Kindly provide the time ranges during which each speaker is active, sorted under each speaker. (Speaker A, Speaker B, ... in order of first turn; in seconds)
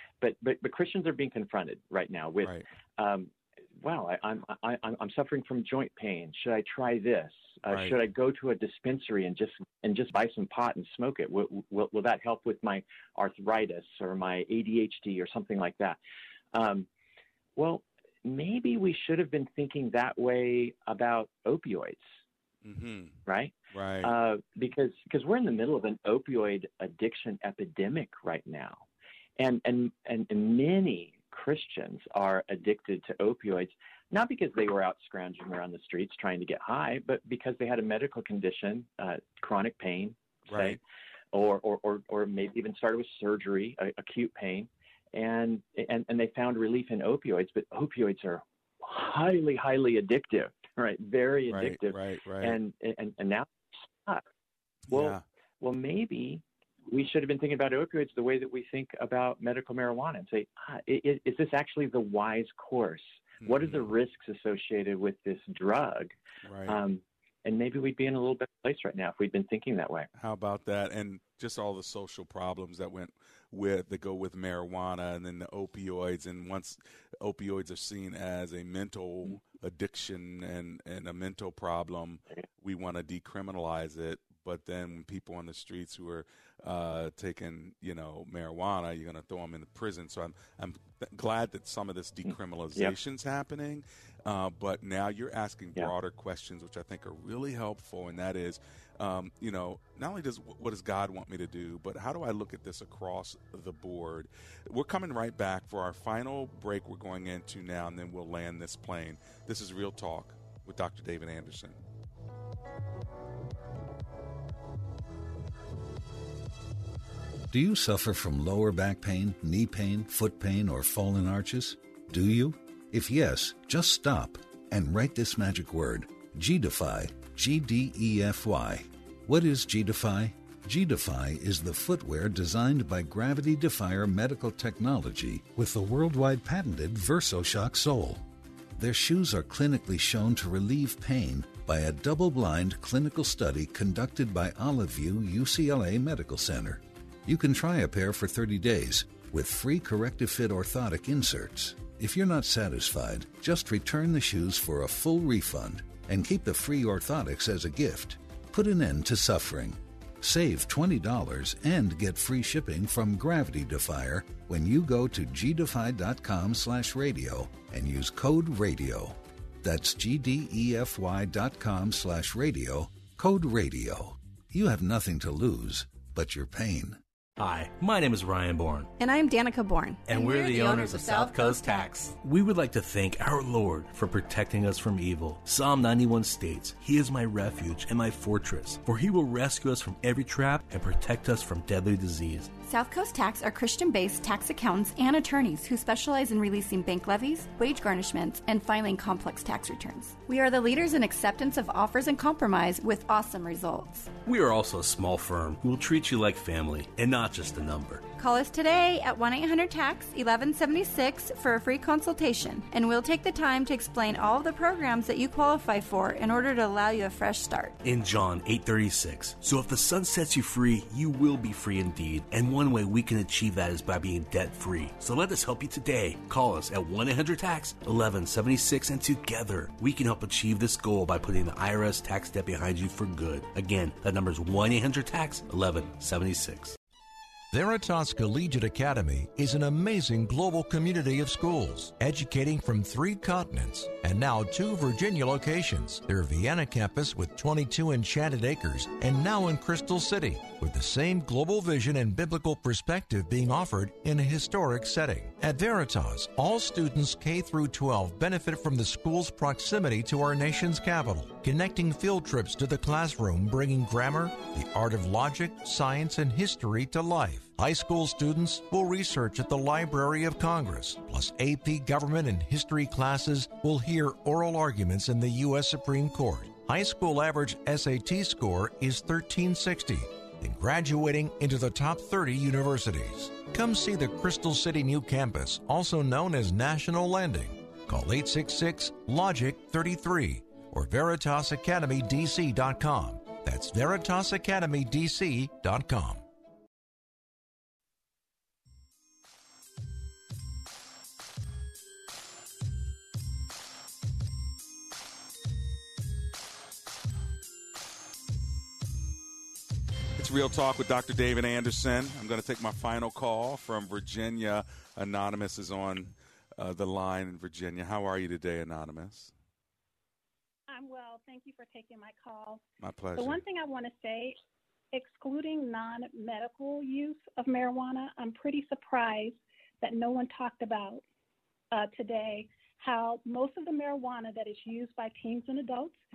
Speaker A: 0.2-16.0, 16.5-16.9, 17.6-22.1, 23.2-28.8, 29.4-40.8, 41.3-54.2, 54.9-66.1, 66.7-70.1, 92.3-92.9
Speaker B: 7.7-8.0, 22.6-23.2, 23.7-24.1, 40.5-40.8, 51.5-52.5, 54.9-55.2, 63.4-63.9, 66.4-66.8, 70.1-111.8, 310.2-319.3, 322.8-323.4
Speaker C: 117.5-138.2, 138.8-177.0
Speaker D: 177.4-178.9, 180.0-192.5, 204.2-208.1, 217.8-236.8
Speaker E: 179.0-181.8, 192.7-204.1, 208.2-217.7
Speaker F: 237.5-296.2
Speaker G: 320.7-322.6, 323.1-324.4, 324.9-331.0, 331.7-336.0